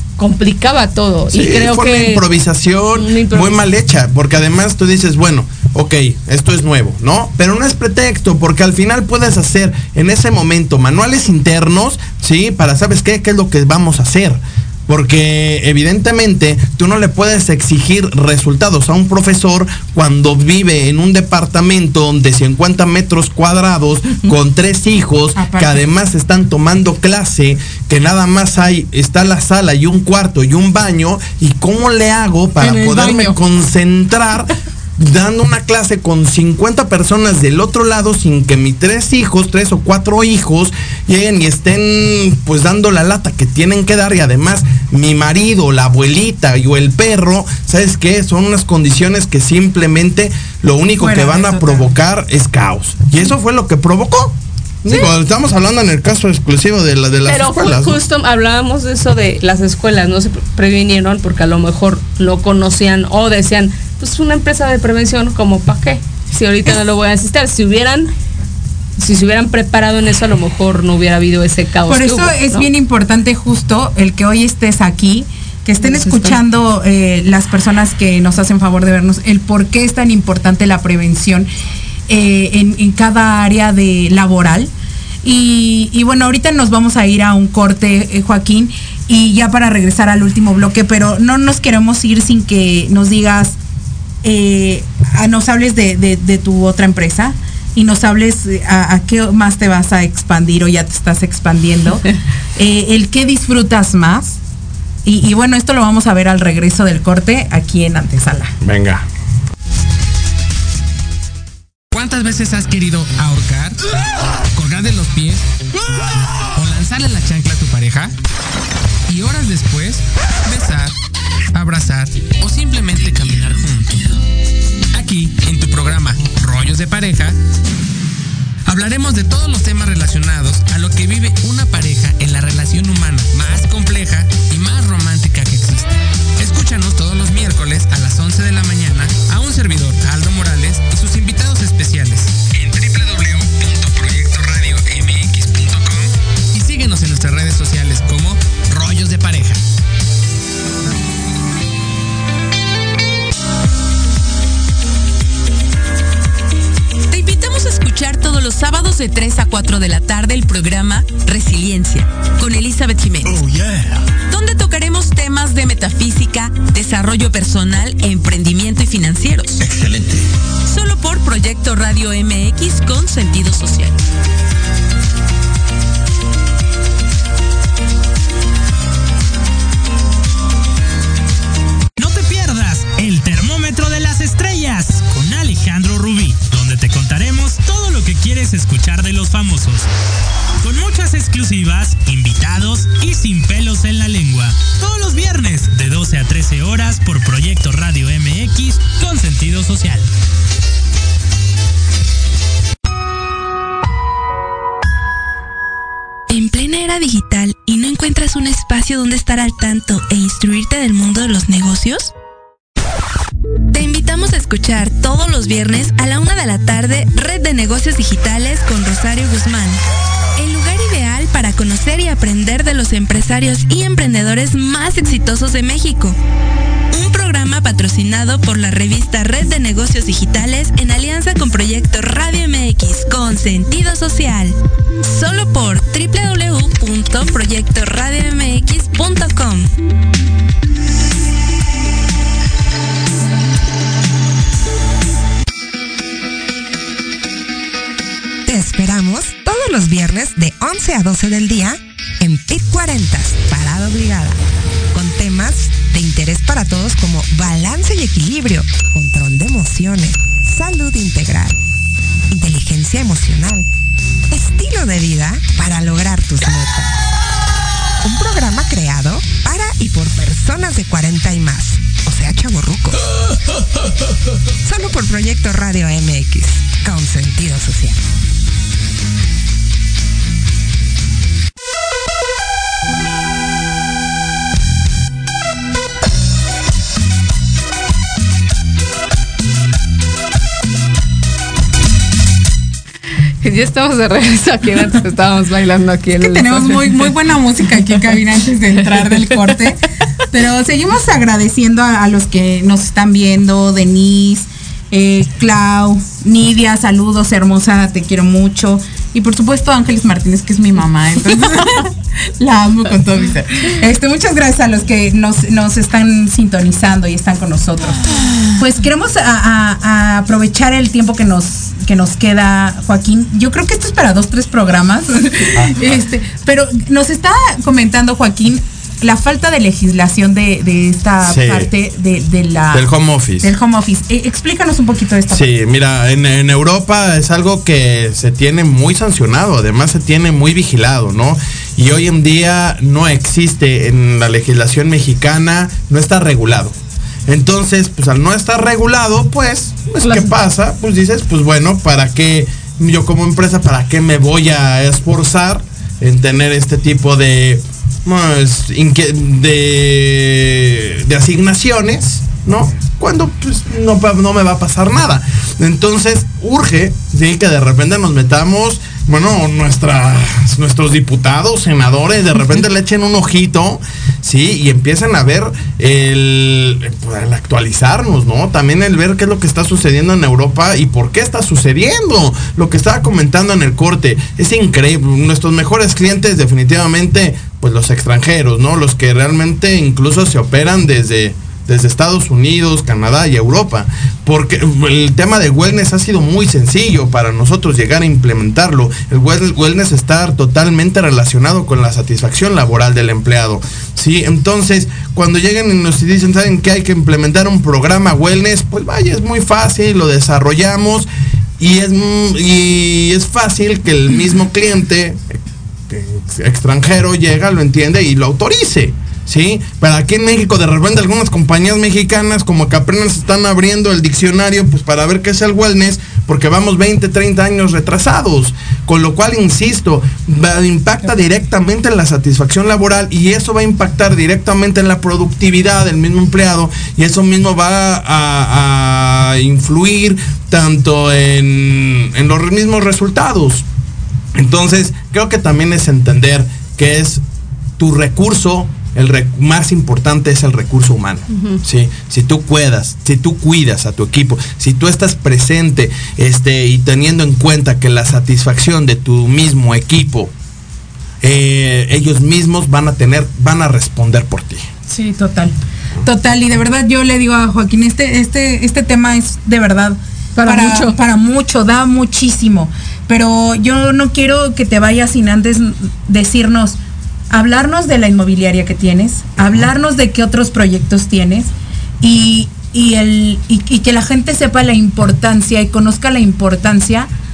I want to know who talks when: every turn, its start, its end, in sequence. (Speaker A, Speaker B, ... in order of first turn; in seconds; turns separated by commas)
Speaker A: 0.2-2.2, Speaker B: 1.3-58.0, Speaker A: 2.9-3.6, Speaker C: 25.4-25.9, Speaker C: 32.6-33.3, Speaker C: 51.0-51.9, Speaker A: 57.2-68.1, Speaker A: 69.0-72.7, Speaker C: 71.9-81.5, Speaker A: 75.8-76.4, Speaker C: 82.1-84.7, Speaker C: 85.2-93.6, Speaker C: 94.2-104.4, Speaker C: 105.0-108.5, Speaker B: 108.6-109.0, Speaker D: 111.9-113.8, Speaker D: 114.5-115.4, Speaker D: 116.5-118.1, Speaker D: 119.1-120.9, Speaker D: 121.5-124.1, Speaker D: 124.9-127.4, Speaker D: 128.7-149.6, Speaker E: 157.1-163.3, Speaker E: 164.3-169.5, Speaker E: 170.7-173.6, Speaker F: 182.0-189.9, Speaker F: 190.6-200.1, Speaker G: 206.3-212.1, Speaker G: 213.7-219.8, Speaker G: 220.3-226.2, Speaker G: 226.9-239.7, Speaker H: 248.4-254.4, Speaker H: 254.9-261.6, Speaker H: 262.3-263.6, Speaker H: 264.3-266.9, Speaker H: 268.0-273.0, Speaker H: 274.6-278.0, Speaker A: 293.4-297.1, Speaker C: 296.2-318.0, Speaker C: 318.6-332.9, Speaker B: 331.2-331.7, Speaker B: 332.7-333.5, Speaker C: 333.4-335.5, Speaker B: 335.3-346.7, Speaker B: 347.3-411.1, Speaker A: 350.0-350.3, Speaker B: 411.6-443.6, Speaker B: 444.3-447.2, Speaker B: 447.8-460.3, Speaker A: 451.3-451.6, Speaker B: 461.2-464.6, Speaker C: 464.9-476.8, Speaker A: 470.3-470.9, Speaker C: 477.3-481.5, Speaker C: 482.0-487.1